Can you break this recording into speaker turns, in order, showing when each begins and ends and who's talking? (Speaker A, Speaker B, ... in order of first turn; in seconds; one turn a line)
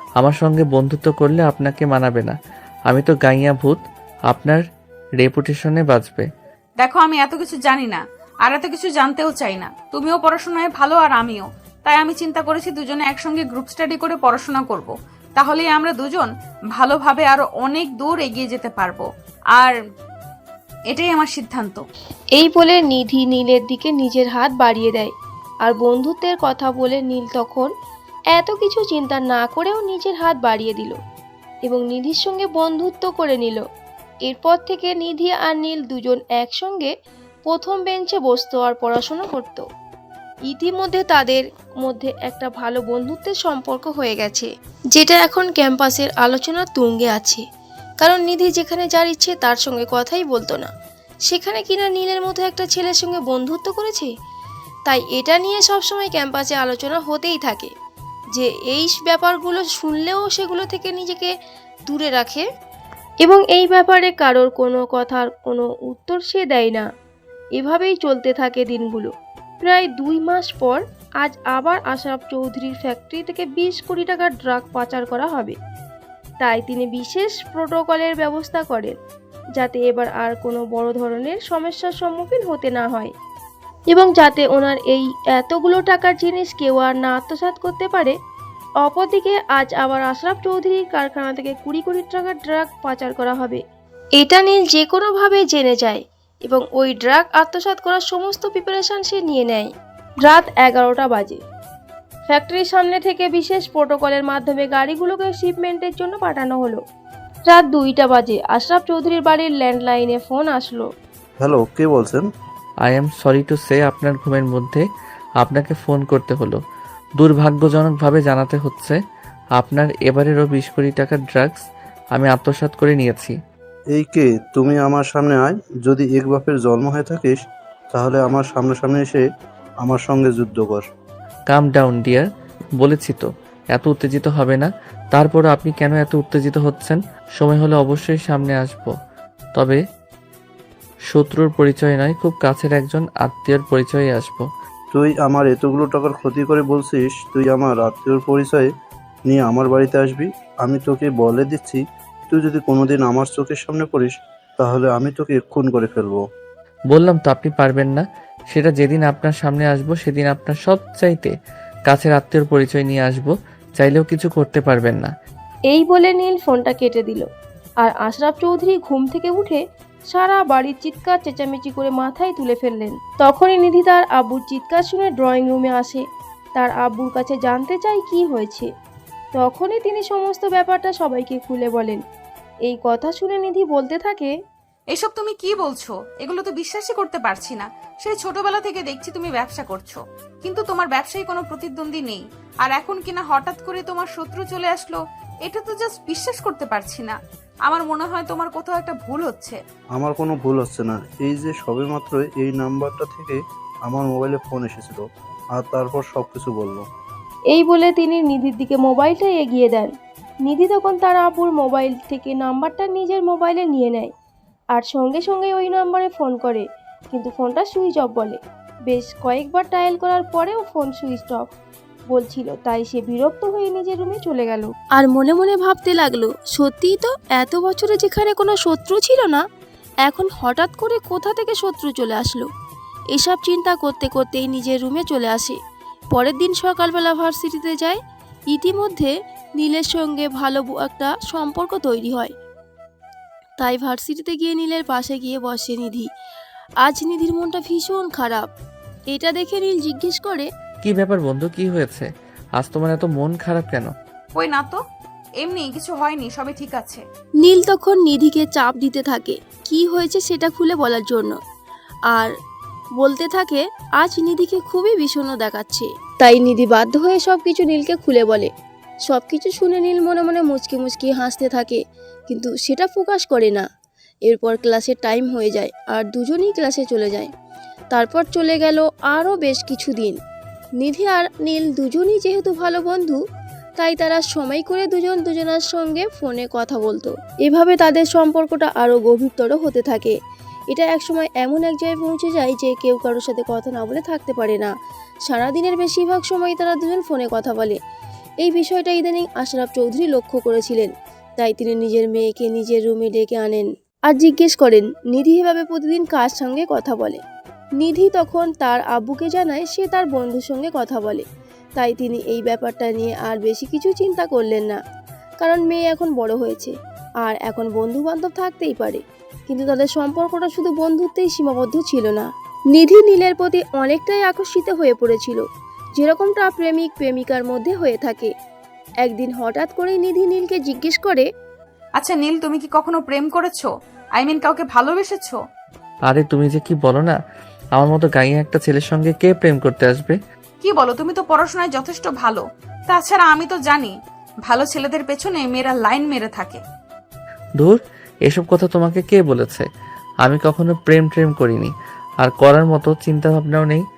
Speaker A: 0.2-4.6
Speaker A: 5.2-6.3
Speaker B: 6.8-19.7
Speaker B: 20.9-21.8
Speaker C: 22.4-25.1
Speaker C: 25.6-27.7
Speaker C: 28.3-31.0
Speaker C: 31.6-33.6
Speaker C: 34.2-36.9
Speaker C: 37.5-39.6
Speaker C: 40.5-47.4
Speaker C: 48.0-50.7
Speaker C: 51.3-54.1
Speaker C: 54.9-57.7
Speaker C: 58.3-61.3
Speaker C: 61.9-62.5
Speaker C: 63.2-66.9
Speaker C: 67.6-75.6
Speaker C: 76.4-79.0
Speaker C: 79.6-83.1
Speaker C: 83.9-88.1
Speaker C: 88.8-93.6
Speaker C: 94.2-99.7
Speaker C: 100.2-101.4
Speaker C: 102.3-106.8
Speaker C: 107.5-110.9
Speaker D: 111.4-112.2
Speaker A: 112.8-114.8
Speaker A: 115.4-116.6
Speaker A: 117.2-119.0
Speaker A: 119.6-121.6
Speaker A: 122.1-123.4
Speaker D: 123.9-127.4
Speaker D: 127.9-129.2
Speaker D: 129.8-130.8
Speaker A: 131.5-132.3
Speaker A: 132.8-138.9
Speaker A: 139.6-139.8
Speaker A: 141.1-144.5
Speaker D: 144.9-148.7
Speaker D: 149.3-156.2
Speaker A: 156.9-161.3
Speaker A: 161.9-165.1
Speaker C: 165.7-167.3
Speaker C: 167.8-176.0
Speaker C: 176.6-178.7
Speaker C: 179.4-182.0
Speaker C: 182.7-184.3
Speaker B: 184.9-199.6
Speaker D: 200.0-205.0
Speaker D: 205.6-206.8
Speaker C: 207.5-209.9
Speaker C: 210.4-214.1
Speaker C: 214.7-221.5
Speaker C: 222.1-229.4
Speaker C: 230.1-232.5
Speaker C: 233.1-235.6
Speaker C: 236.1-238.0
Speaker C: 238.5-242.3
Speaker C: 243.6-246.1
Speaker C: 246.8-248.5
Speaker C: 249.1-250.5
Speaker A: 250.8-253.9
Speaker B: 254.3-254.8
Speaker B: 255.4-257.0
Speaker C: 257.4-261.4
Speaker C: 263.0-268.5
Speaker C: 269.1-273.6
Speaker C: 274.3-277.3
Speaker C: 277.9-280.2
Speaker C: 280.8-283.2
Speaker C: 283.8-290.1
Speaker C: 290.7-294.7
Speaker C: 295.3-297.8
Speaker C: 298.4-307.2
Speaker C: 307.8-311.2
Speaker C: 311.8-314.8
Speaker C: 315.4-325.4
Speaker C: 326.0-328.3
Speaker C: 329.0-331.3
Speaker B: 332.0-335.4
Speaker A: 336.1-337.2
Speaker A: 337.8-340.2
Speaker B: 340.6-343.9
Speaker B: 344.5-346.6
Speaker A: 347.6-349.7
Speaker A: 350.2-353.8